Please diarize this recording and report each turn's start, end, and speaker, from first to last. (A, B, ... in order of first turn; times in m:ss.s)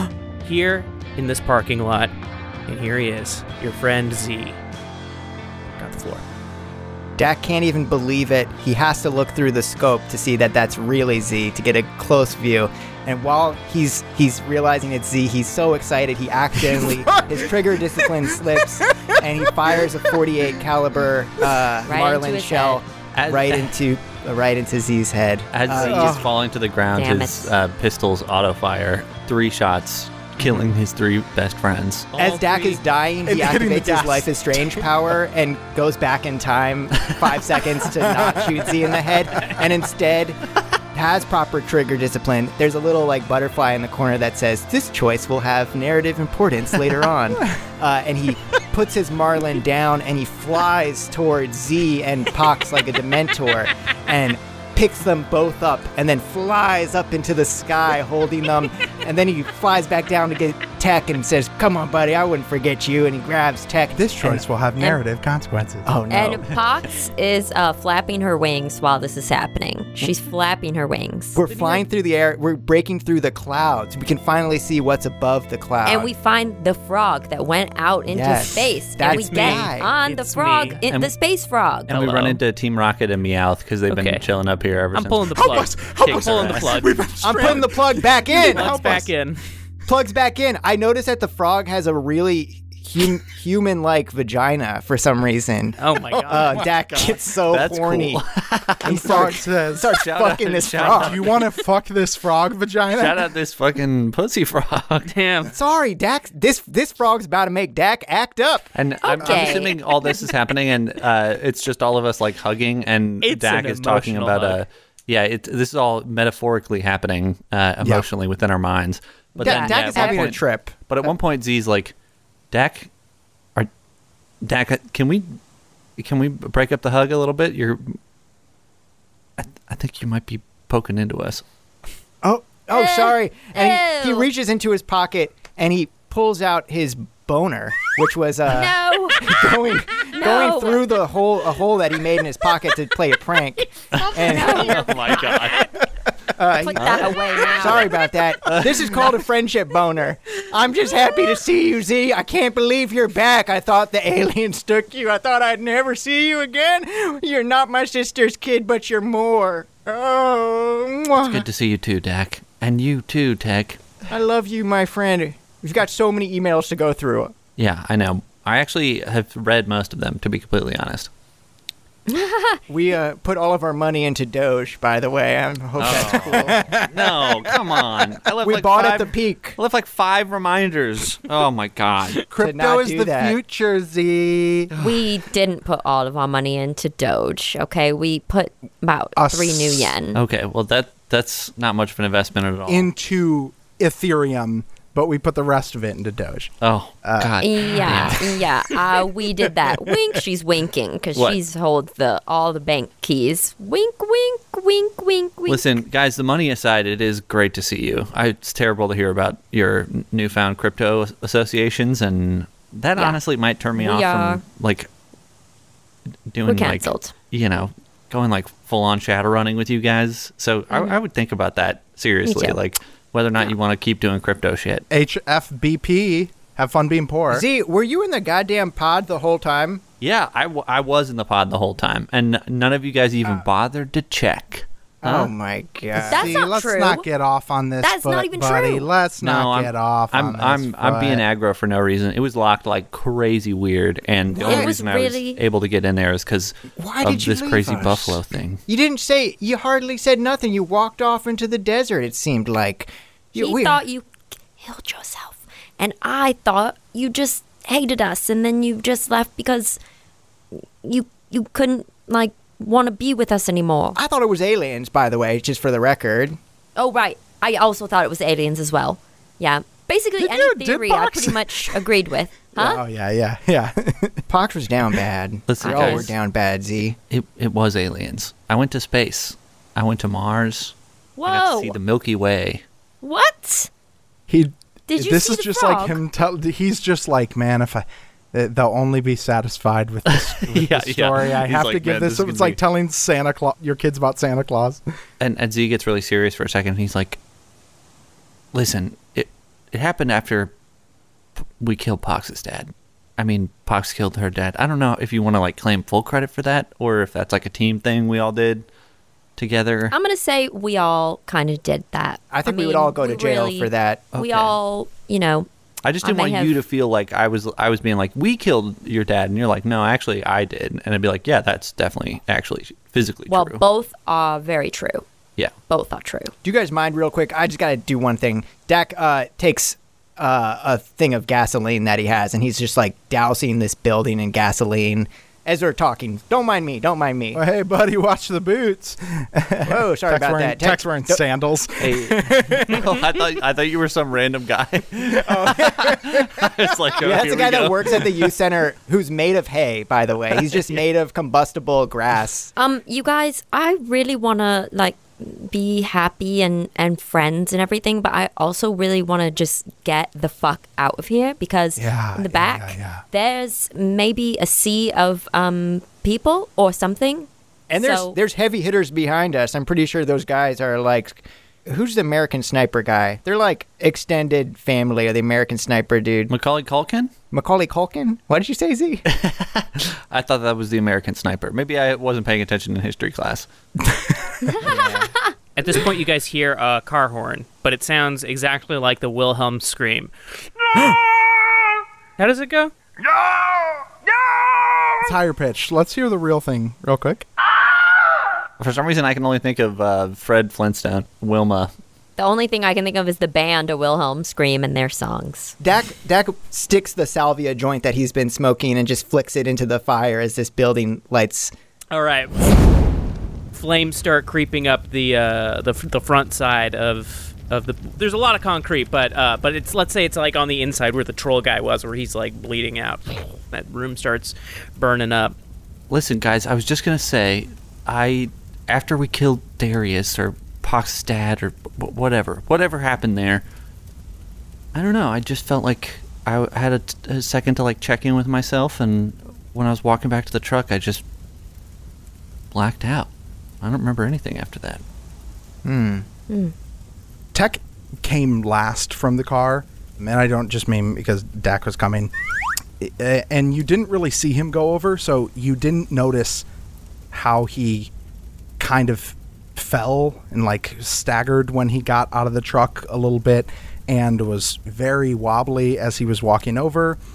0:00.4-0:02.1 A
0:02.7-0:04.6 A
0:05.8-0:06.2 A
0:07.2-0:26.2 B
0:16.6-0:19.8 C
0:21.9-0:22.8 D
0:23.1-0:23.7 E
0:25.5-0:32.1 E
0:25.7-0:26.4 C
0:26.9-0:27.5 D
0:32.1-0:32.8 A
0:32.2-1:04.4 B
0:33.2-0:34.9 C
0:38.0-0:38.8 C
1:04.0-1:05.9 C
1:05.9-1:06.5 B
1:06.1-1:11.4 D
1:11.4-1:16.1 B
1:11.5-1:11.9 A
1:15.8-1:22.3 D
1:18.1-1:19.9 B
1:19.2-1:20.8 A
1:20.9-1:21.1 E
1:21.9-1:26.8 E
1:21.9-1:22.4 A
1:23.9-1:24.2 A
1:24.9-1:26.9 A
1:25.4-1:29.1 C
1:27.2-1:29.0 B
1:28.3-1:29.4 A
1:29.9-1:38.2 B
1:35.8-1:36.7 A
1:36.3-1:37.0 C
1:37.3-1:41.4 E
1:38.8-1:41.4 B
1:38.8-1:40.1 C
1:40.7-1:43.3 C
1:43.0-1:45.1 E
1:45.1-1:45.5 A
1:45.5-1:49.6 B
1:48.8-2:01.9 E
1:49.0-1:50.3 D
1:53.2-1:54.6 A
1:59.4-2:01.1 B
1:59.6-2:00.0 A
1:59.6-2:00.2 D
2:02.5-2:02.9 E
2:04.4-2:05.4 E
2:06.0-2:08.0 E
2:09.4-2:11.4 E
2:12.2-2:25.5 B
2:12.7-2:14.3 D
2:18.5-2:19.4 D
2:20.1-2:20.9 D
2:23.9-2:25.8 E
2:24.2-2:25.1 D
2:26.3-2:41.4 B
2:26.5-2:28.0 D
2:26.8-2:27.9 E
2:28.4-2:29.1 E
2:41.2-2:43.8 E
2:44.1-2:47.4 B
2:47.6-2:51.1 E
2:52.1-2:52.6 D
2:52.7-2:56.8 B
2:55.8-3:02.2 E
2:55.8-2:56.9 C
2:58.4-2:59.6 B
3:02.3-3:04.7 C
3:02.4-3:03.4 B
3:04.8-3:05.0 E
3:04.8-3:10.2 D
3:09.2-3:09.9 C
3:10.2-3:12.9 E
3:12.7-3:18.4 C
3:16.6-3:18.3 E
3:17.4-3:25.7 D
3:25.5-3:34.9 E
3:33.8-3:34.4 D
3:36.3-3:44.8 E
3:36.4-3:37.1 D
3:42.2-3:42.6 D
3:44.9-3:47.5 C
3:47.3-3:49.8 B
3:50.0-3:55.3 E
3:55.0-3:56.4 B
3:56.0-4:01.2 C
3:56.1-3:57.0 D
3:57.8-3:58.9 D
3:59.2-4:08.6 E
4:04.3-4:04.7 B
4:04.4-4:05.4 D
4:06.8-4:13.8 B
4:13.4-4:19.8 D
4:20.8-4:24.0 D
4:24.0-4:26.4 B
4:26.8-4:32.8 D
4:30.2-4:31.8 C
4:32.6-4:34.2 C
4:34.3-4:37.0 B
4:35.5-4:36.2 E
4:35.6-4:36.1 D
4:37.1-4:42.6 E
4:41.2-4:41.8 D
4:43.0-4:43.7 D
4:44.3-4:54.8 C
4:44.9-4:46.0 D
4:50.1-4:52.6 E
4:55.2-4:57.2 E
4:58.5-5:00.5 E
5:01.6-5:08.7 E
5:09.4-5:10.0 E
5:09.9-5:15.5 D
5:12.3-5:14.1 B
5:14.1-5:14.6 E
5:15.8-5:23.6 E
5:16.0-5:16.6 D
5:23.3-5:25.0 D
5:25.6-5:26.3 D
5:26.4-5:37.4 B
5:37.3-5:43.0 C
5:39.7-5:41.2 B
5:41.8-5:48.3 E
5:45.2-5:46.5 C
5:47.0-5:52.5 B
5:52.6-6:08.2 D
6:01.8-6:03.0 C
6:07.7-6:16.3 B
6:16.3-6:17.1 E
6:17.3-6:19.0 B
6:19.1-6:23.5 E
6:24.6-6:25.1 B
6:25.6-6:31.3 A
6:32.2-6:32.7 A
6:35.0-6:37.3 C
6:38.6-6:41.7 E
6:42.2-6:45.6 D
6:45.6-6:51.5 B
6:51.9-6:52.5 A
6:53.5-7:05.4 A
7:05.9-7:13.4 E
7:14.7-7:21.0 E
7:22.5-7:23.1 E
7:23.6-7:24.8 E
7:25.6-7:26.1 B
7:27.3-7:32.1 C
7:32.8-7:36.5 C
7:37.1-7:37.9 C
7:38.6-7:47.0 C